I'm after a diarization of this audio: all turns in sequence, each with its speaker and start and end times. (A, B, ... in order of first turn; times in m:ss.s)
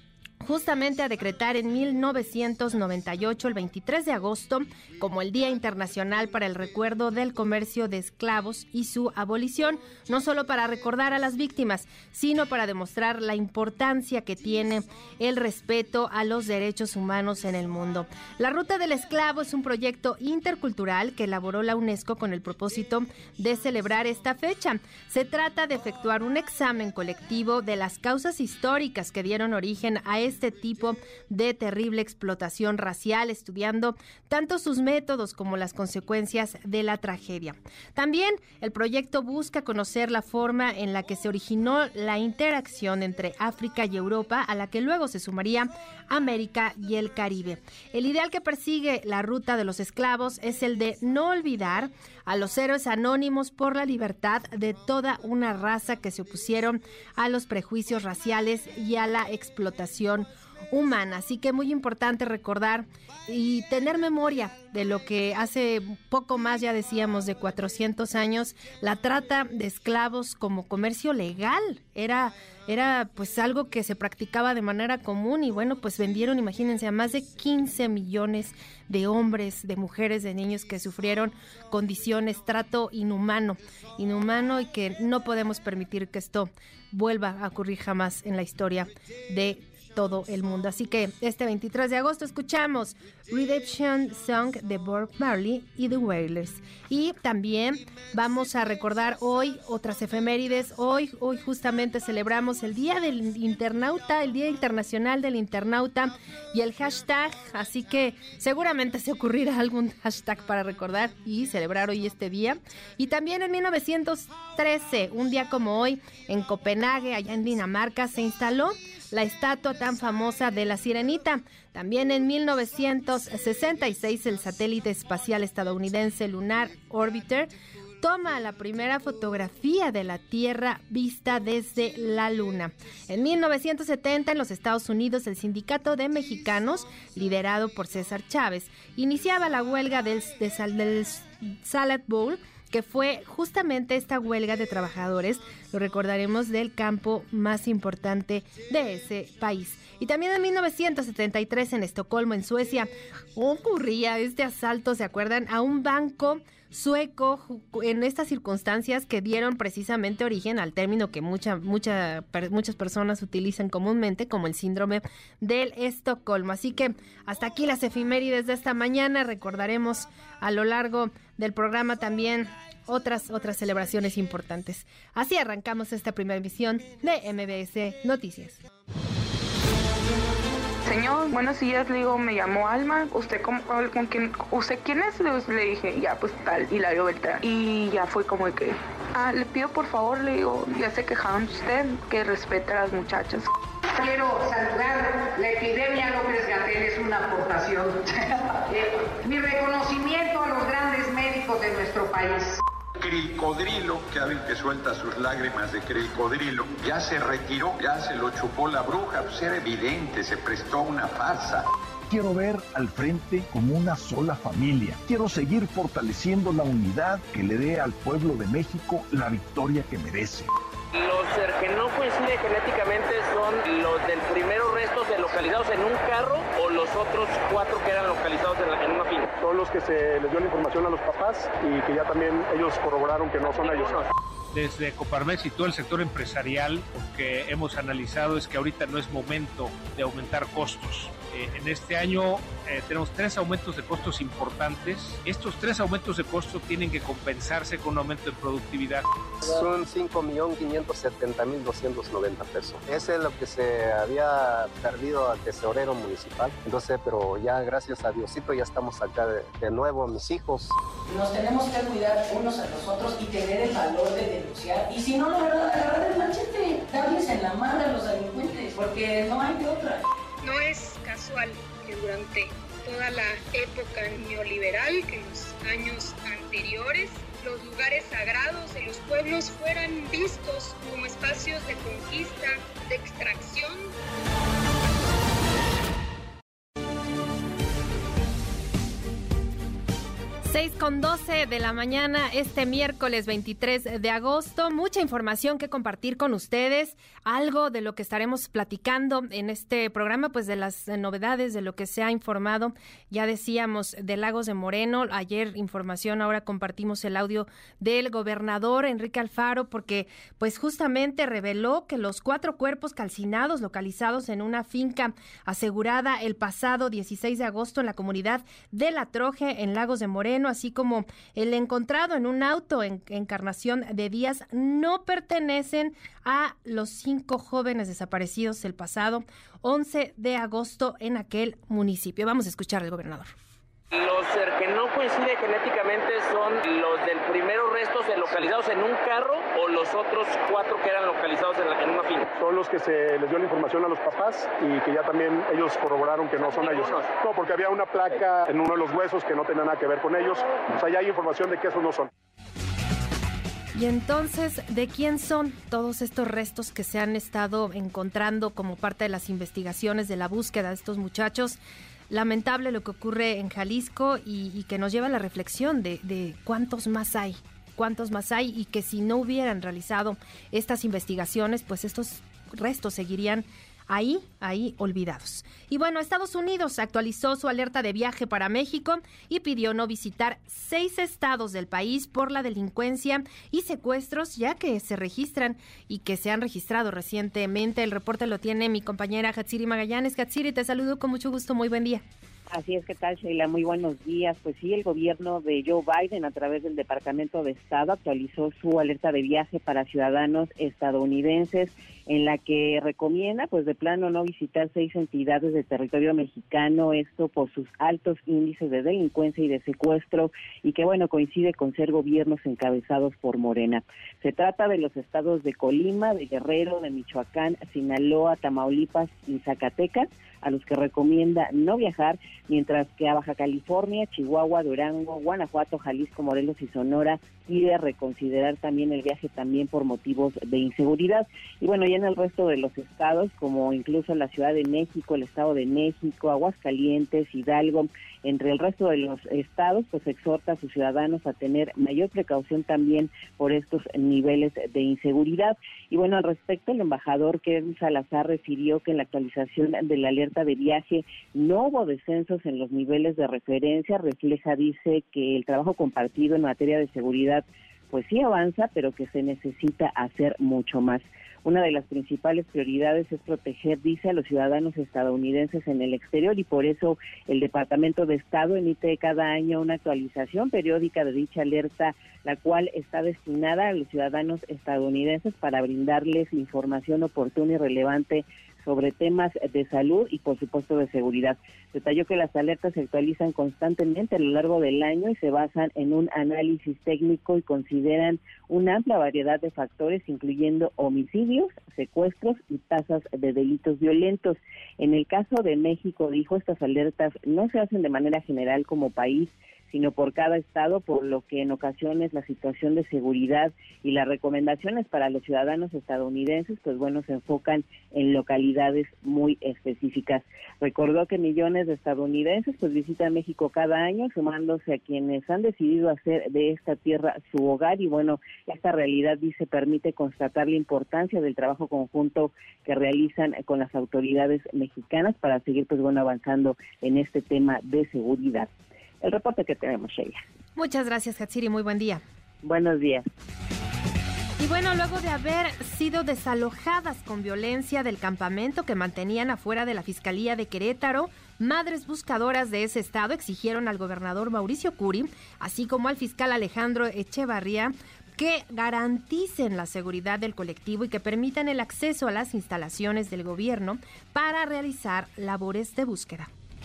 0:00.4-2:58.6 A
3:00.8-3:13.5 B
3:13.9-3:22.6 C
3:23.0-3:31.6 D
3:32.1-3:40.5 E
3:40.9-3:49.3 F
3:49.4-3:54.0 G
3:53.4-3:54.1 F
3:54.5-4:09.0 H
4:09.4-4:20.7 I
4:21.1-4:30.0 J
4:30.4-4:43.9 K
4:50.4-5:33.3 A
5:33.9-5:42.3 F
5:42.4-5:52.1 G
5:46.4-5:47.1 F
5:53.7-6:01.6 A
6:02.1-6:32.0 A
6:32.5-8:48.5 L
8:49.0-8:50.2 L
8:50.6-8:52.0 A
8:52.4-8:53.0 L
8:54.4-9:16.3 A